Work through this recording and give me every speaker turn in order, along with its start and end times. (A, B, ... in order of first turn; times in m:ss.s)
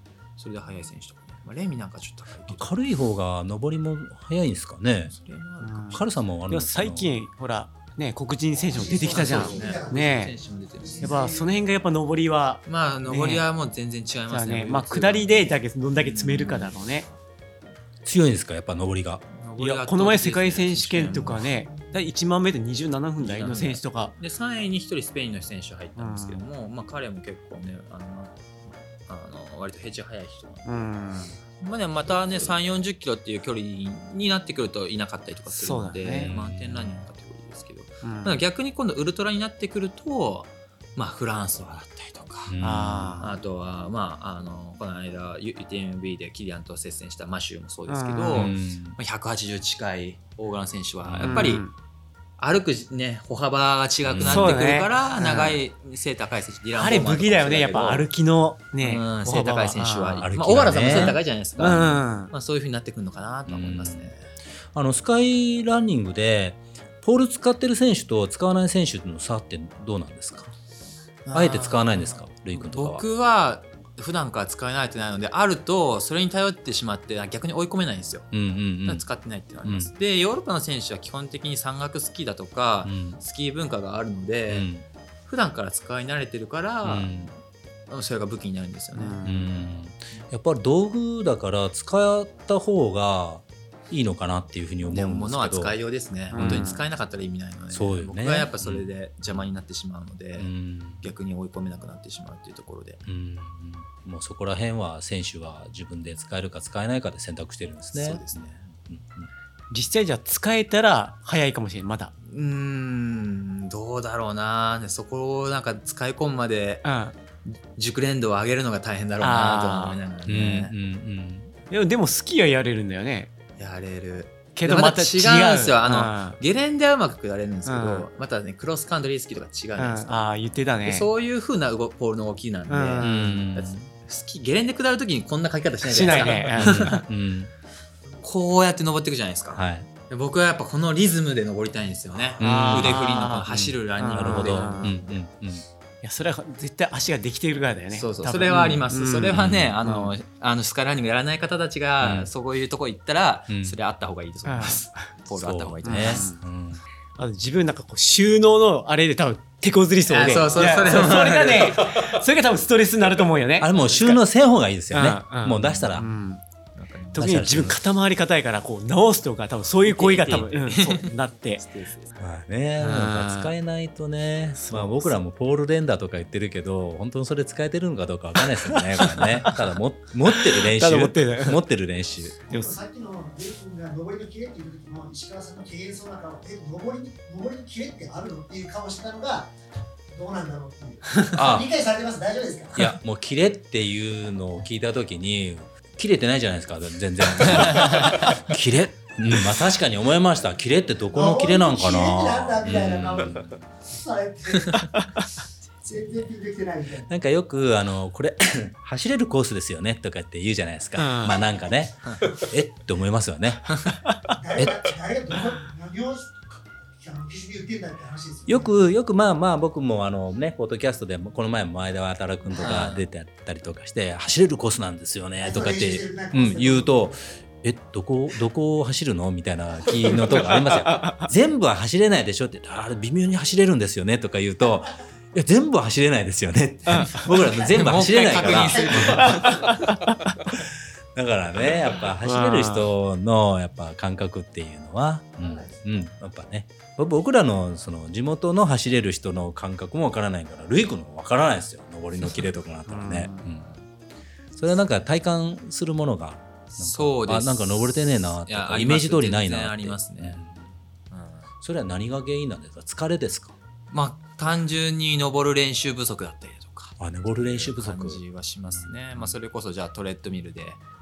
0:00.4-0:02.7 A
0:02.5-0:05.1 B
0:05.0-0:06.0 A
0:05.6-0:10.3 C
0:05.9-0:07.1 B
0:08.7-0:11.5 D
0:08.8-0:11.2 A
0:11.0-0:13.4 C
0:12.6-0:15.5 A
0:14.3-0:17.1 C
0:16.3-0:16.7 B
0:18.0-0:19.2 B
0:19.3-0:21.5 A
0:19.6-0:24.1 C
0:23.2-0:30.9 A
0:26.0-0:26.4 C
0:30.6-0:31.4 C
0:31.6-0:42.6 A
0:35.5-0:36.3 C
0:36.1-0:37.0 B
0:38.0-0:38.4 C
0:42.5-0:43.2 B
0:42.6-0:43.3 C
0:43.2-0:51.6 A
0:47.9-0:48.5 C
0:48.3-0:49.0 B
0:51.0-0:51.6 B
0:51.2-0:51.7 C
0:52.4-0:58.1 A
0:54.1-0:54.6 B
0:54.2-0:55.6 C
0:56.8-1:02.3 C
0:58.8-1:04.3 A
1:00.2-1:01.2 B
1:03.5-1:04.1 B
1:04.7-1:10.5 B
1:11.2-1:18.3 A
1:11.3-1:13.0 B
1:18.3-1:19.0 B
1:18.8-1:24.7 A
1:19.6-1:19.9 B
1:22.8-1:23.2 B
1:24.5-1:24.8 B
1:25.3-1:27.1 A
1:26.8-1:27.3 B
1:27.9-1:29.2 A
1:29.0-1:29.5 C
1:29.2-1:35.7 B
1:34.8-1:43.0 A
1:36.3-1:36.7 B
1:36.3-1:36.8 C
1:37.7-1:38.9 B
1:40.4-1:41.0 B
1:43.0-1:49.3 B
1:47.9-1:48.7 A
1:49.7-1:52.1 C
1:52.3-1:56.8 A
1:56.8-1:57.1 C
1:57.4-2:00.7 A
1:59.2-2:00.0 C
2:00.3-2:01.5 B
2:01.7-2:03.3 C
2:03.6-2:10.2 A
2:04.6-2:06.4 C
2:07.6-2:08.1 C
2:09.8-2:11.1 C
2:10.8-2:17.0 A
2:12.7-2:13.4 C
2:13.0-2:13.9 B
2:15.8-2:17.0 C
2:16.6-2:17.5 B
2:18.2-2:25.2 A
2:19.5-2:19.9 B
2:22.4-2:23.5 C
2:22.4-2:25.6 B
2:24.0-2:24.9 C
2:26.0-2:30.1 C
2:27.9-2:36.3 A
2:29.3-2:29.8 B
2:32.0-2:32.3 B
2:33.5-2:33.8 B
2:34.4-2:35.1 C
2:35.3-2:36.8 B
2:35.8-2:36.4 C
2:37.2-2:44.2 C
2:40.1-2:41.9 A
2:43.6-2:46.0 B
2:44.9-2:46.4 C
2:45.8-2:46.1 A
2:46.8-2:47.2 A
2:47.1-2:51.6 C
2:47.2-2:47.8 B
2:49.9-2:52.1 A
2:52.2-3:02.4 B
2:52.8-2:53.5 C
2:54.5-2:55.2 C
2:58.4-2:59.7 C
3:00.3-3:01.6 C
3:02.5-3:02.8 C
3:02.5-3:09.5 D
3:10.1-3:12.9 D
3:11.3-3:11.7 B
3:12.7-3:23.6 B
3:17.6-3:18.3 A
3:21.1-3:24.9 D
3:25.8-3:27.1 D
3:27.1-3:34.0 B
3:31.0-3:31.4 C
3:34.4-3:38.7 D
3:34.6-3:34.9 B
3:38.5-3:59.8 B
3:42.6-3:43.0 A
3:45.4-3:46.9 D
3:50.6-3:51.2 C
3:56.9-3:57.3 C
3:57.7-3:59.5 A
3:58.2-3:59.6 D
3:58.9-4:00.4 C
4:00.5-4:13.7 B
4:02.2-4:02.9 C
4:05.4-4:05.8 D
4:12.9-4:13.5 C
4:14.6-4:20.7 B
4:16.7-4:20.4 A
4:21.1-4:21.5 A
4:21.6-4:23.5 B
4:23.9-4:30.8 A
4:27.0-4:29.3 B